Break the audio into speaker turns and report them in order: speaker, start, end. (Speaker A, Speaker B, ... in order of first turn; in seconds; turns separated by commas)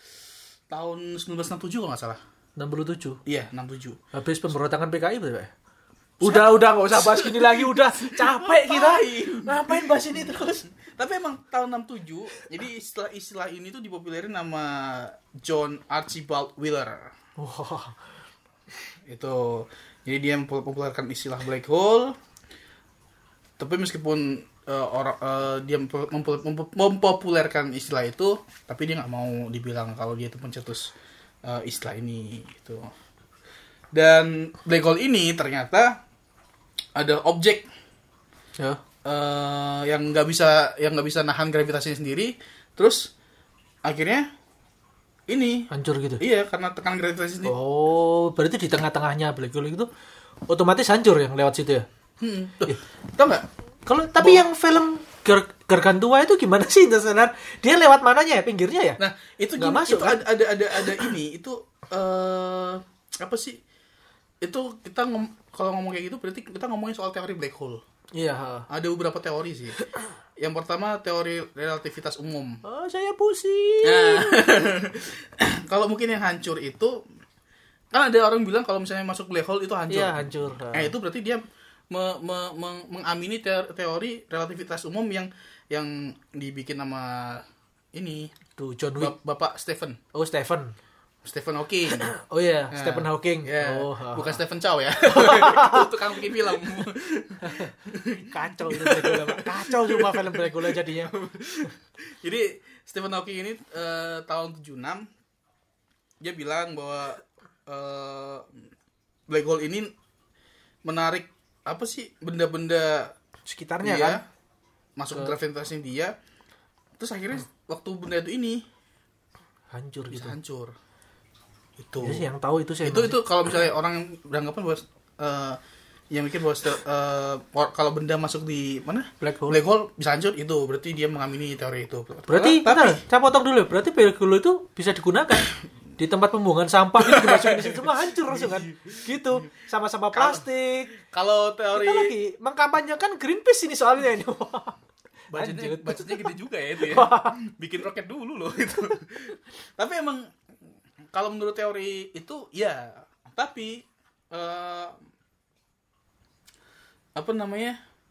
Speaker A: 0.7-2.2, Speaker B: 2.6-3.2, Speaker A: 3.2-4.0, Speaker B: 4.1-5.5, Speaker B: 6.2-10.7, Speaker A: 6.2-10.2, Speaker A: 10.7-17.1, Speaker B: 17.4-18.0, Speaker A: 19.1-22.1, Speaker A: 23.6-30.9, Speaker A: 31.4-32.9, Speaker A: 33.9-36.0, Speaker A: 37.0-37.6, Speaker B: 38.6-38.8, Speaker A: 39.0-43.1, Speaker A: 43.8-44.3, Speaker A: 45.3-47.5, Speaker B: 45.7-46.2, Speaker B: 47.4-49.9, Speaker B: 50.5-51.9, Speaker A: 52.2-53.4, Speaker B: 53.9-59.0, Speaker A: 59.0-63.6, Speaker B: 59.6-61.1, Speaker A: 64.4-67.8, Speaker B: 68.1-68.7, Speaker A: 68.7-69.8, Speaker B: 69.8-70.1, Speaker A: 70.4-72.6, Speaker B: 72.6-74.5, Speaker A: 73.8-77.0, Speaker A: 77.9-88.3, Speaker B: 79.9-80.9, Speaker B: 88.6-89.1, Speaker A: 89.0-90.0, Speaker B: 90.1-90.7, Speaker A: 91.2-92.1, Speaker B: 91.9-94.4, Speaker A: 92.7-105.1, Speaker B: 95.0-96.0, Speaker B: 97.4-101.1, Speaker A: 106.2-108.5, Speaker A: 109.3-109.9, Speaker A: 110.8-113.1, Speaker B: 113.4-114.2, Speaker A: 113.8-114.2, Speaker A: 115.0-116.1, Speaker A: 117.0-118.6, Speaker B: 119.7-120.4, Speaker A: 120.1-120.7, Speaker A: 121.8-122.2, Speaker B: 122.0-123.2, Speaker A: 122.8-125.6, Speaker A: 126.1-133.0, Speaker B: 129.2-129.6, Speaker B: 132.3-140.9, Speaker A: 137.0-139.4, Speaker A: 140.1-142.1, Speaker B: 141.7-144.8, Speaker B: 145.3-147.4, Speaker A: 145.3-150.3, Speaker A: 151.1-155.0, Speaker A: 157.2-157.8